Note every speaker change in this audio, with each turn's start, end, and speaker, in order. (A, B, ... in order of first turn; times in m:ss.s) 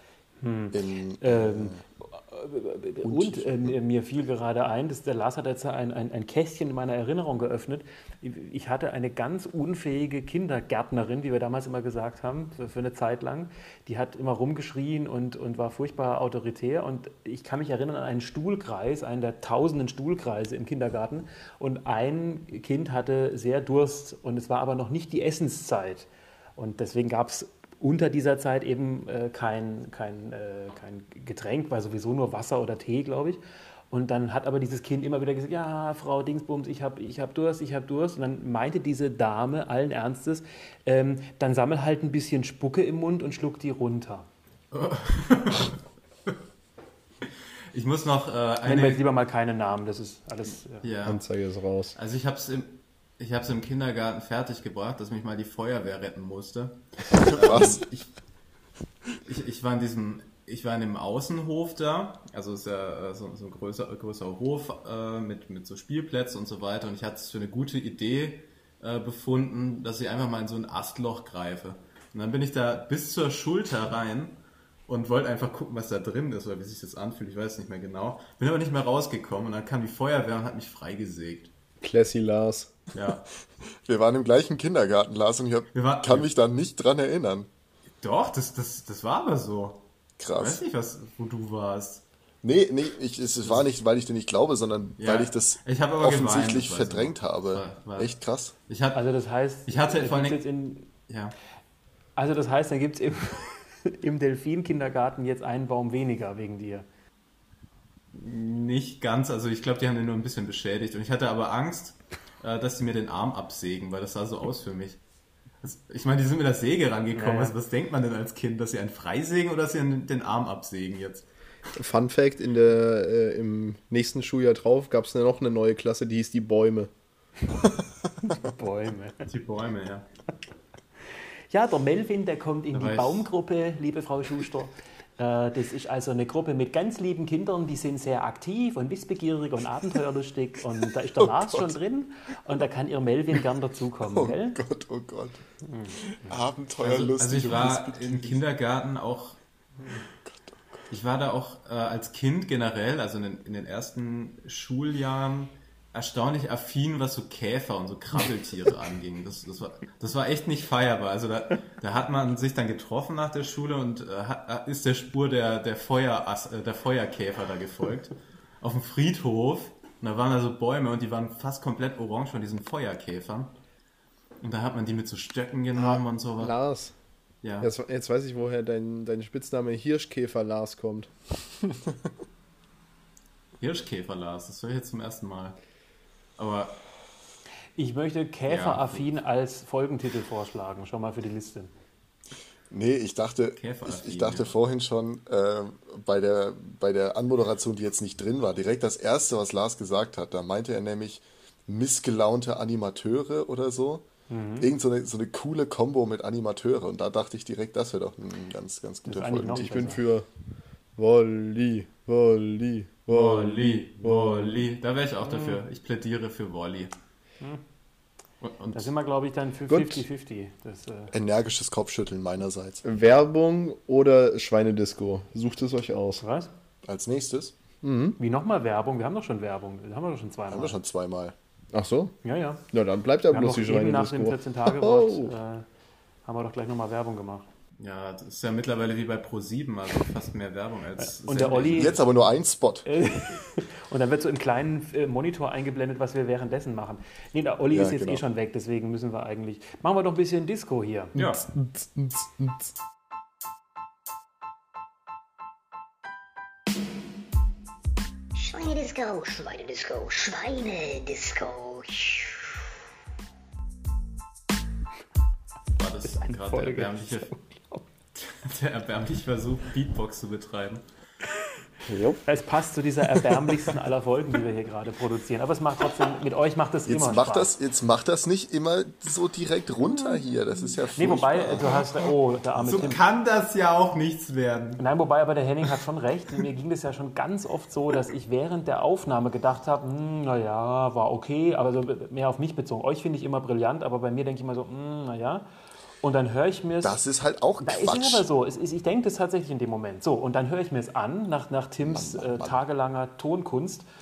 0:00.4-0:33.4 A
0:00.7-0:01.8 B
0:03.0-0:03.7 B
0:33.9-0:44.3 A
0:44.7-0:46.3 C
0:47.7-0:49.0 C
0:48.6-0:50.8 A
0:50.8-0:51.2 C
0:51.0-0:51.9 D
0:51.9-0:58.1 C
0:57.2-0:57.8 B
0:59.2-1:21.5 C
1:21.8-1:22.7 D
1:22.9-1:23.2 C
1:23.8-1:27.5 B
1:25.7-1:26.3 C
1:28.0-1:29.8 C
1:30.2-1:30.6 B
1:30.3-1:32.0 C
1:32.4-1:38.5 B
1:33.4-1:33.7 C
1:35.0-1:38.1 C
1:38.7-1:39.0 C
1:38.9-1:40.9 A
1:39.7-1:40.4 C
1:41.1-1:41.4 C
1:42.2-1:46.8 A
1:48.1-1:55.0 C
1:55.6-2:01.3 C
1:57.1-1:57.5 A
2:01.8-2:06.9 D
2:08.2-2:09.2 A
2:09.2-2:10.1 C
2:11.5-2:24.6 A
2:12.7-2:13.3 C
2:21.3-2:21.7 B
2:24.1-2:25.4 B
2:25.6-2:26.4 A
2:26.2-2:28.4 B
2:26.8-2:29.4 C
2:29.8-2:30.8 B
2:30.9-2:53.5 C
2:54.4-2:56.6 C
2:55.7-2:56.9 D
2:57.4-2:57.7 C
2:57.6-3:01.1 D
3:03.6-3:05.6 C
3:06.4-3:06.8 C
3:07.8-3:11.7 A
3:08.5-3:09.0 C
3:12.7-3:24.0 B
3:13.6-3:14.5 C
3:24.3-3:24.7 A
3:24.6-3:29.8 B
3:29.0-3:30.0 A
3:29.5-3:30.3 D
3:31.0-3:34.7 D
3:33.1-3:36.9 C
3:38.4-3:38.9 C
3:38.7-3:41.1 A
3:39.7-3:40.0 D
3:41.1-3:42.8 B
3:42.8-3:46.2 D
3:46.2-3:46.5 A
3:46.8-3:47.5 B
3:47.8-3:48.2 D
3:48.2-3:50.8 A
3:50.5-3:51.3 B
3:51.7-3:52.1 D
3:52.2-3:52.6 A
3:52.7-3:55.4 D
3:53.3-3:55.6 A
3:56.2-3:57.5 A
3:57.8-4:02.0 C
4:01.0-4:02.0 A
4:01.7-4:02.9 B
4:02.8-4:11.1 A
4:07.7-4:08.2 B
4:11.2-4:11.4 C
4:11.2-4:12.7 D
4:18.3-4:22.6 E
4:25.8-4:27.3 C
4:26.1-4:27.8 A
4:28.1-4:30.8 C
4:31.9-4:32.2 D
4:32.2-4:37.5 A
4:36.9-4:41.8 B
4:40.9-4:43.0 A
4:42.6-4:44.8 C
4:44.8-4:55.4 A
4:56.0-4:57.0 A
4:56.8-4:58.2 B
4:57.6-5:03.8 A
5:01.8-5:02.6 B